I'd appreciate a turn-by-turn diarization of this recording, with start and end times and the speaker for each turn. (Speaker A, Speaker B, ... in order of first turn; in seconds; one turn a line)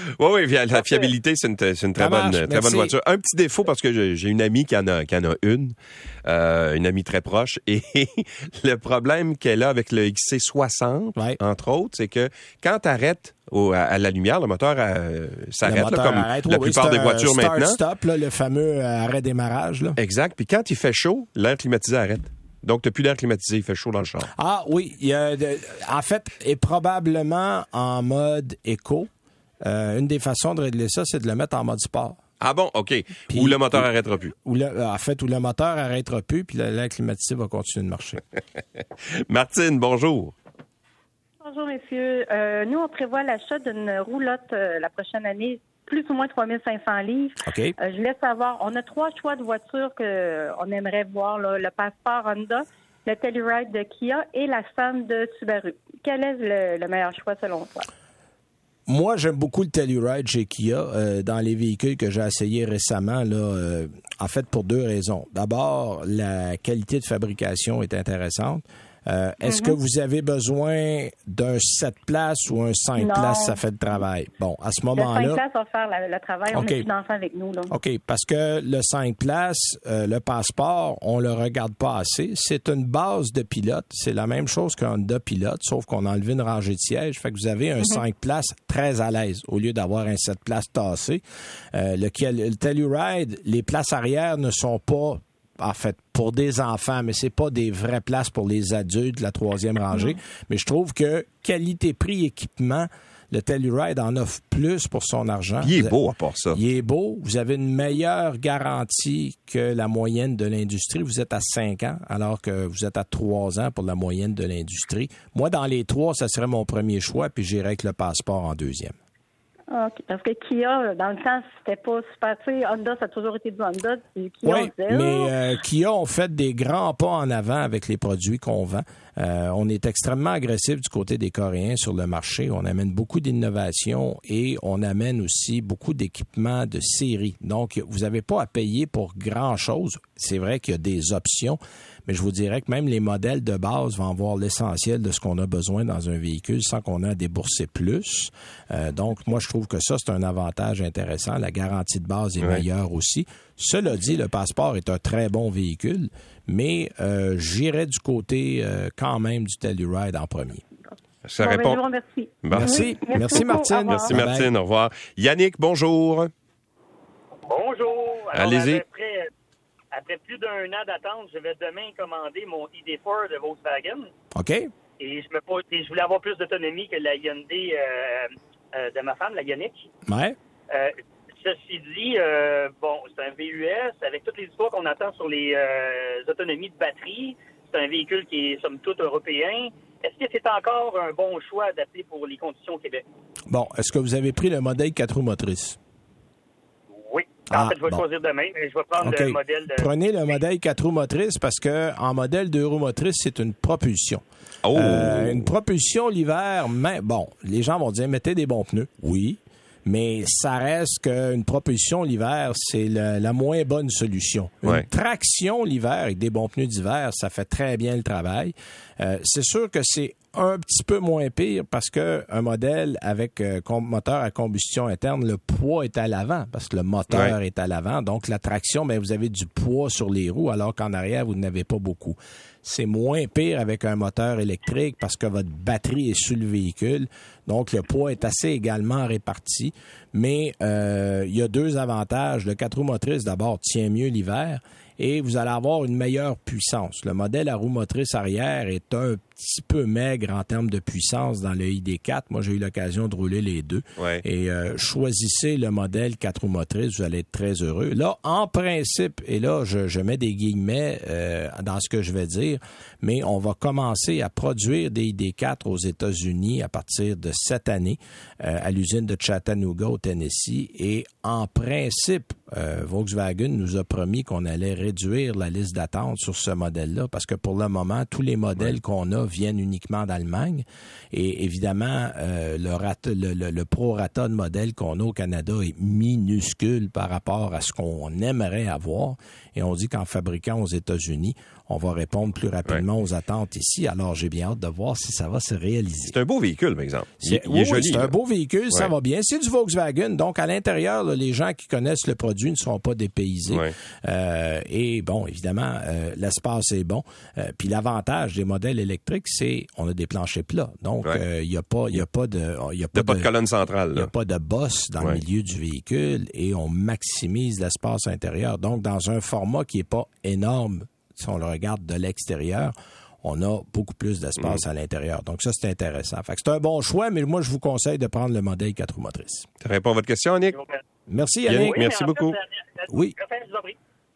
Speaker A: 0.2-17.8
Speaker B: 1.9-2.9
Speaker B: 15.6-20.0
Speaker A: 20.0-24.3
Speaker B: 24.3-29.1
Speaker B: 29.6-32.2
Speaker A: 32.4-34.3
Speaker B: 33.3-38.2
Speaker A: 39.3-40.3
Speaker C: 41.4-57.9
Speaker B: 47.4-47.7
Speaker B: 58.9-75.4
Speaker C: 69.4-69.8
Speaker C: 73.0-74.0
Speaker C: 74.9-77.7
Speaker B: 76.5-76.9
Speaker B: 77.7-106.0
Speaker A: 105.6-106.6
Speaker B: 106.5-119.0
Speaker C: 119.7-125.3
Speaker B: 124.4-160.6
Speaker C: 160.9-164.1
Speaker A: 161.2-161.8
Speaker A: 162.4-163.0
Speaker B: 162.5-164.5
Speaker A: 163.9-166.3
Speaker D: 167.4-169.3
Speaker A: 168.3-168.8
Speaker D: 169.9-174.1
Speaker B: 174.3-174.7
Speaker D: 175.0-179.8
Speaker B: 180.1-180.3
Speaker D: 180.7-193.1
Speaker B: 193.5-195.8
Speaker D: 197.0-199.9
Speaker B: 197.5-198.0
Speaker B: 199.0-296.1
Speaker A: 204.6-205.5
Speaker A: 254.0-254.2
Speaker A: 296.1-298.1
Speaker B: 297.2-313.3
Speaker A: 303.5-303.7
Speaker A: 312.9-314.1
Speaker B: 313.9-329.5
Speaker A: 329.6-330.6
Speaker D: 330.5-330.8
Speaker B: 331.1-331.8
Speaker A: 331.5-332.4
Speaker D: 331.5-333.8
Speaker B: 332.9-333.1